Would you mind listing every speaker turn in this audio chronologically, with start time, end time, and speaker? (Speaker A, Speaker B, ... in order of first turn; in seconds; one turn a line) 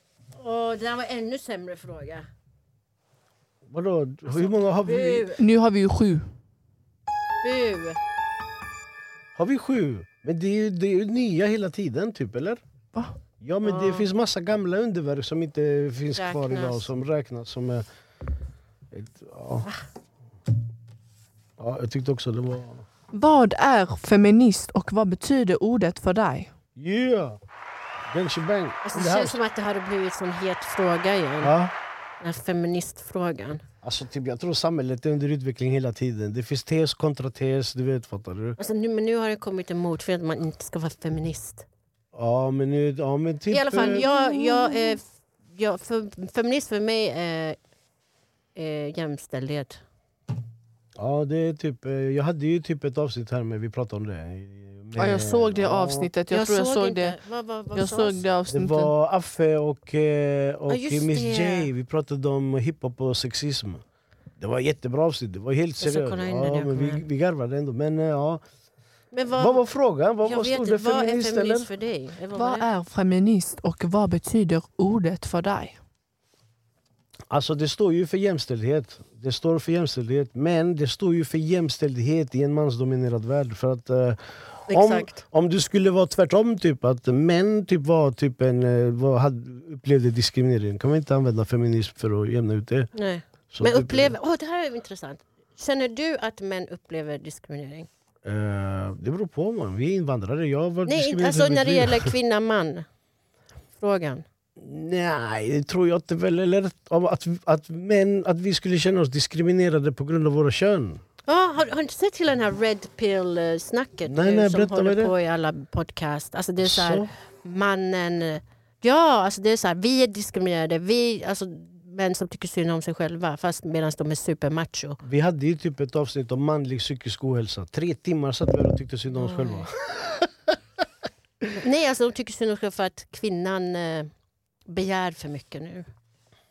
Speaker A: 0.4-2.3
Speaker B: 3.7-5.3
Speaker A: 4.4-5.4
Speaker C: 5.4-6.3
Speaker A: 7.4-8.0
Speaker B: 9.4-12.6
Speaker B: 13.4-17.9
Speaker A: 13.6-14.1
Speaker A: 16.1-16.9
Speaker B: 18.9-19.7
Speaker B: 21.6-22.9
Speaker C: 23.1-26.5
Speaker B: 26.8-27.4
Speaker B: 28.1-29.4
Speaker A: 28.8-31.5
Speaker B: 31.4-31.7
Speaker A: 32.2-33.6
Speaker B: 33.8-38.6
Speaker A: 38.6-41.7
Speaker B: 42.1-44.0
Speaker A: 43.5-45.0
Speaker C: 43.7-45.0
Speaker A: 45.5-47.6
Speaker A: 48.6-49.8
Speaker B: 51.0-56.1
Speaker C: 55.0-57.2
Speaker A: 56.3-58.2
Speaker C: 57.7-58.9
Speaker B: 58.5-63.8
Speaker A: 60.7-61.7
Speaker B: 64.4-68.4
Speaker A: 65.8-67.0
Speaker A: 69.1-69.6
Speaker B: 69.4-71.7
Speaker A: 70.2-72.7
Speaker C: 72.3-75.8
Speaker B: 77.3-92.9
Speaker A: 84.7-85.2
Speaker A: 93.0-97.9
Speaker B: 93.5-94.2
Speaker B: 98.2-102.1
Speaker A: 100.9-102.9
Speaker A: 103.8-104.2
Speaker B: 104.6-111.0
Speaker A: 111.3-125.0
Speaker B: 114.1-115.1
Speaker B: 116.6-117.1
Speaker B: 125.0-130.6
Speaker A: 129.2-129.7
Speaker A: 131.6-134.1
Speaker A: 134.7-135.9